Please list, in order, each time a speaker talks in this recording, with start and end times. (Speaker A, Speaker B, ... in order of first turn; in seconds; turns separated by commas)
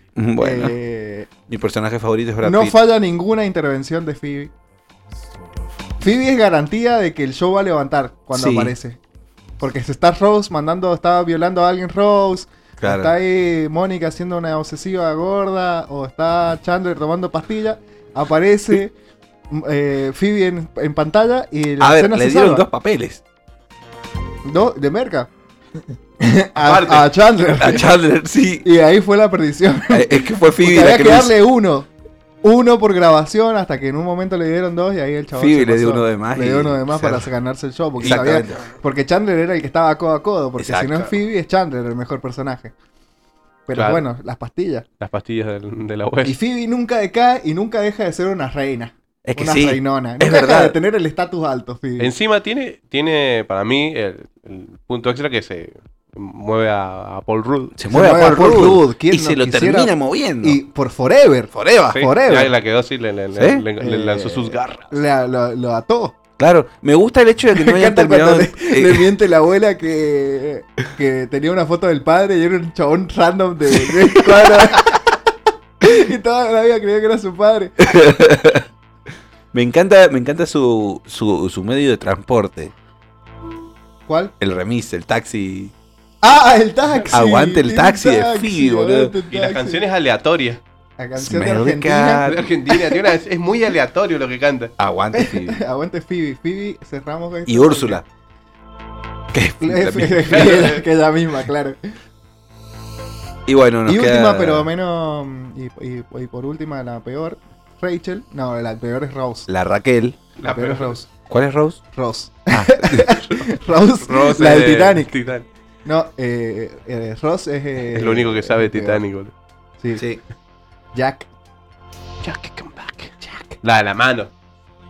Speaker A: 0.2-0.8, Speaker B: 0.4-1.3, Speaker A: 1.5-2.8, Speaker B: 2.4-4.5, Speaker B: 6.0-9.0, Speaker A: 8.3-8.8, Speaker B: 9.6-18.9, Speaker A: 12.8-13.1, Speaker B: 19.5-22.6, Speaker A: 21.8-23.2, Speaker B: 24.4-25.3, Speaker B: 26.2-27.9, Speaker C: 26.6-27.1, Speaker A: 27.6-28.7, Speaker B: 28.6-31.9, Speaker A: 29.9-31.3, Speaker B: 32.4-42.7, Speaker A: 35.3-37.3, Speaker A: 38.0-38.6, Speaker A: 40.6-41.1, Speaker B: 43.7-44.9, Speaker C: 43.7-44.0, Speaker C: 45.0-46.4, Speaker B: 46.2-52.1, Speaker A: 49.2-50.8, Speaker C: 52.0-57.8, Speaker A: 57.8-60.6, Speaker B: 57.9-62.5, Speaker A: 61.5-62.0, Speaker C: 61.9-64.9, Speaker A: 63.4-63.6, Speaker B: 63.8-66.2, Speaker A: 66.4-69.1, Speaker B: 67.5-75.2, Speaker A: 73.8-75.0, Speaker B: 75.8-78.0, Speaker A: 77.8-78.7, Speaker A: 79.5-82.7, Speaker B: 84.1-84.3, Speaker A: 84.4-85.7, Speaker B: 86.2-89.8, Speaker A: 87.1-89.1, Speaker C: 89.3-90.6, Speaker B: 91.0-92.3, Speaker A: 91.2-93.0, Speaker C: 92.2-94.7, Speaker A: 94.8-95.6, Speaker B: 95.1-98.0, Speaker A: 97.5-98.0, Speaker A: 99.3-100.8, Speaker B: 99.6-101.8, Speaker C: 100.3-100.8, Speaker A: 103.5-104.7, Speaker B: 103.9-109.5, Speaker A: 109.5-110.2, Speaker C: 110.4-111.0, Speaker B: 110.5-111.1, Speaker A: 111.3-111.8, Speaker B: 111.9-115.1, Speaker A: 112.5-113.1, Speaker C: 112.9-113.5, Speaker C: 114.0-115.5, Speaker B: 115.8-119.0, Speaker C: 117.9-119.3, Speaker B: 119.8-120.0, Speaker A: 120.0-120.2, Speaker B: 120.9-121.3, Speaker C: 122.2-124.3